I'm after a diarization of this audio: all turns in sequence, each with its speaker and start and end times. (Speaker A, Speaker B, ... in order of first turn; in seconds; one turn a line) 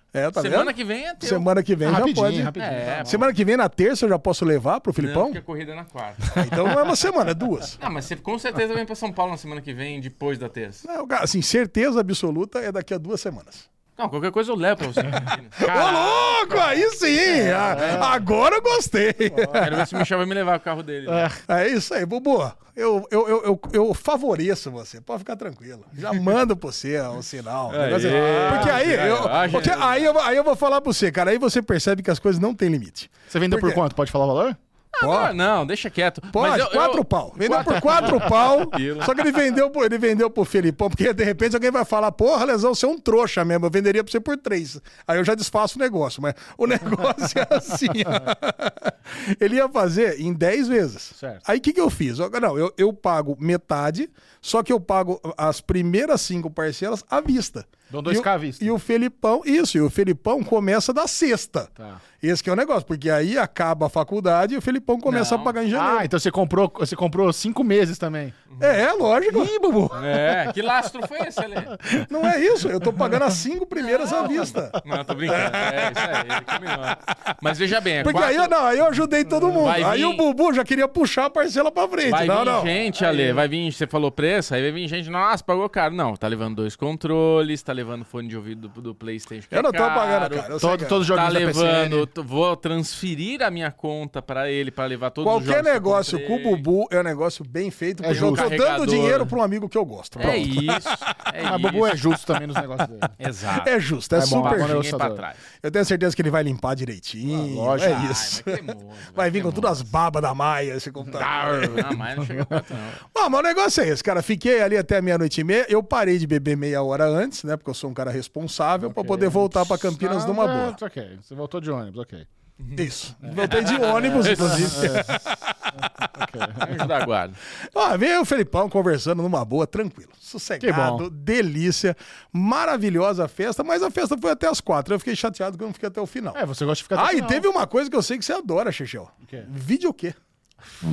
Speaker A: 0.1-2.5
Speaker B: 0.3-1.5
Speaker C: 1.8-3.2
Speaker B: 2.6-3.3
Speaker A: 3.0-5.4
Speaker B: 5.0-6.5
Speaker A: 6.3-7.8
Speaker B: 7.8-10.8
Speaker A: 10.8-13.7
Speaker B: 14.0-15.9
Speaker C: 15.6-18.2
Speaker A: 15.6-20.0
Speaker B: 17.8-18.1
Speaker C: 19.3-19.6
Speaker B: 19.5-21.3
Speaker C: 21.1-21.4
Speaker A: 21.5-33.8
Speaker B: 27.7-30.1
Speaker C: 28.3-28.9
Speaker C: 33.3-34.6
Speaker B: 34.9-39.2
Speaker A: 35.0-35.3
Speaker A: 36.3-66.1
Speaker C: 51.2-51.4
Speaker C: 57.9-58.7
Speaker C: 61.8-62.0
Speaker B: 65.0-65.5
Speaker C: 65.7-68.3
Speaker B: 68.5-68.8
Speaker A: 68.6-70.0
Speaker C: 69.3-69.9
Speaker B: 69.9-71.8
Speaker A: 72.0-76.9
Speaker B: 74.0-78.5
Speaker A: 78.0-82.7
Speaker B: 79.6-80.2
Speaker B: 82.0-90.5
Speaker A: 89.5-91.1
Speaker C: 90.6-92.1
Speaker B: 91.1-96.7
Speaker A: 95.2-101.0
Speaker C: 98.0-98.5
Speaker B: 98.1-99.3
Speaker B: 100.2-102.2
Speaker C: 100.2-100.8
Speaker C: 101.4-103.1
Speaker B: 103.2-105.4
Speaker A: 103.5-104.8
Speaker C: 104.1-105.2
Speaker A: 105.6-108.6
Speaker C: 107.3-108.1
Speaker B: 107.7-109.8
Speaker A: 109.1-112.0
Speaker B: 111.1-113.0
Speaker A: 113.1-120.8
Speaker C: 118.9-122.2
Speaker B: 122.6-125.3
Speaker A: 122.7-125.3
Speaker C: 123.2-125.1
Speaker C: 126.0-126.8
Speaker B: 126.6-127.4
Speaker A: 127.7-136.4
Speaker C: 130.6-131.1
Speaker C: 136.3-137.4
Speaker A: 136.9-140.2